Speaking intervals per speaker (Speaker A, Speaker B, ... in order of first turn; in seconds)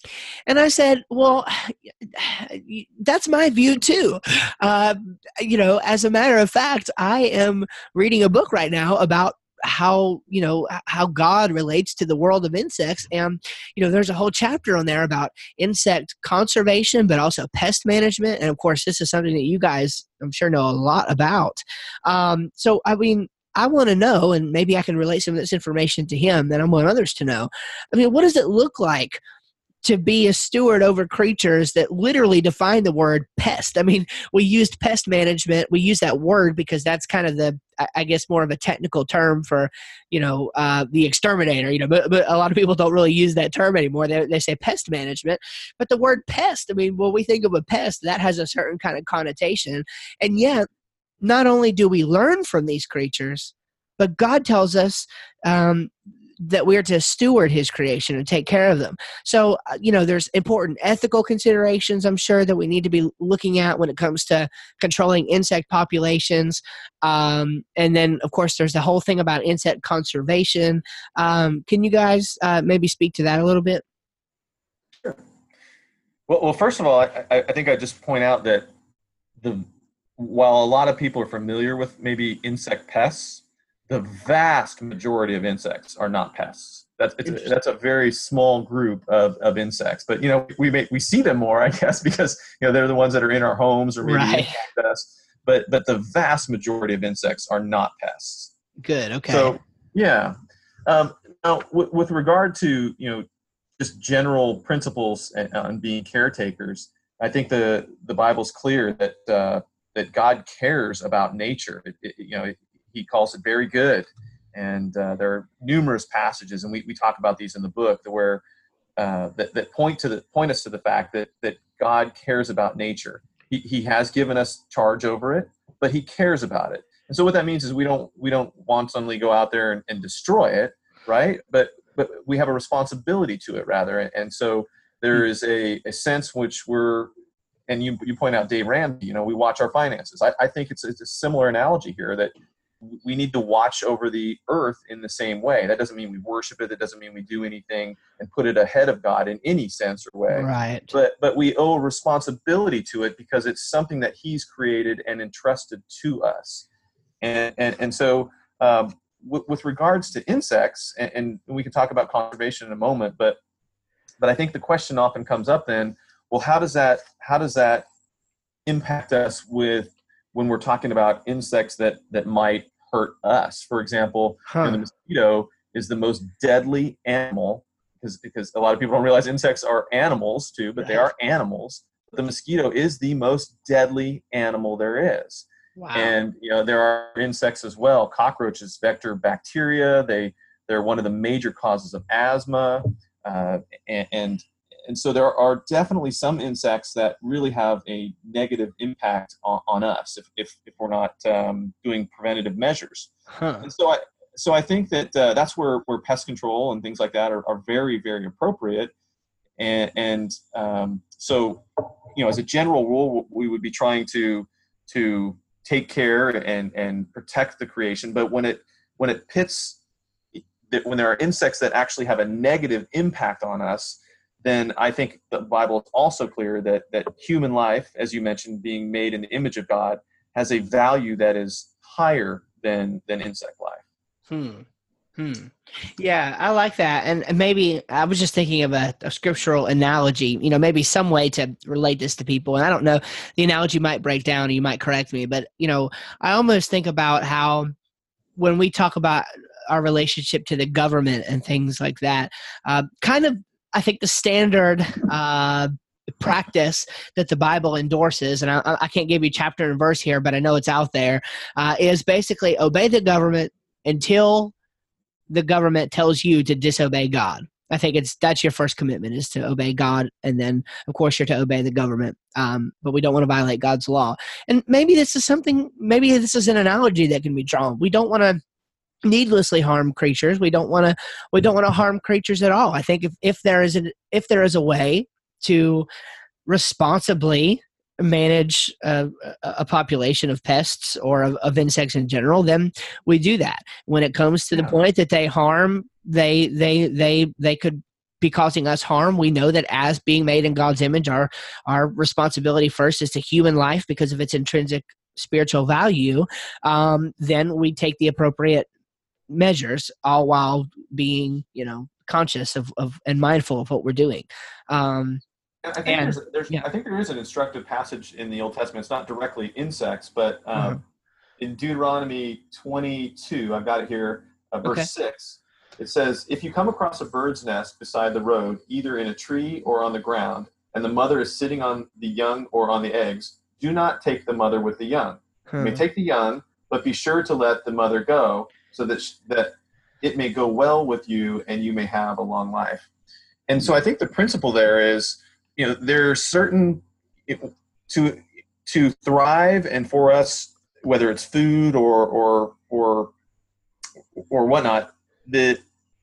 Speaker A: 0.5-29.2, 29.8-50.7, 51.2-73.8, 87.2-87.5, 94.0-94.6, 98.8-99.5, 150.3-150.9, 174.5-174.8, 180.8-181.1, 185.8-186.1, 203.3-203.7, 234.3-234.6, 235.2-247.7, 248.4-264.5, 265.3-278.4, 279.0-285.9, 286.4-308.7, 309.3-315.2, 315.8-316.7, 335.5-335.8
Speaker B: 76.3-78.7, 79.4-79.7, 80.2-98.5, 99.3-100.3, 100.9-103.2, 103.8-118.4, 119.0-137.1, 137.7-156.7, 157.2-163.4, 164.2-167.8, 168.7-203.1, 203.6-208.9, 209.6-211.6, 212.1-219.8, 220.4-233.8, 294.5-294.8, 315.6-320.8, 321.4-342.9, 343.5-353.1, 354.3-355.6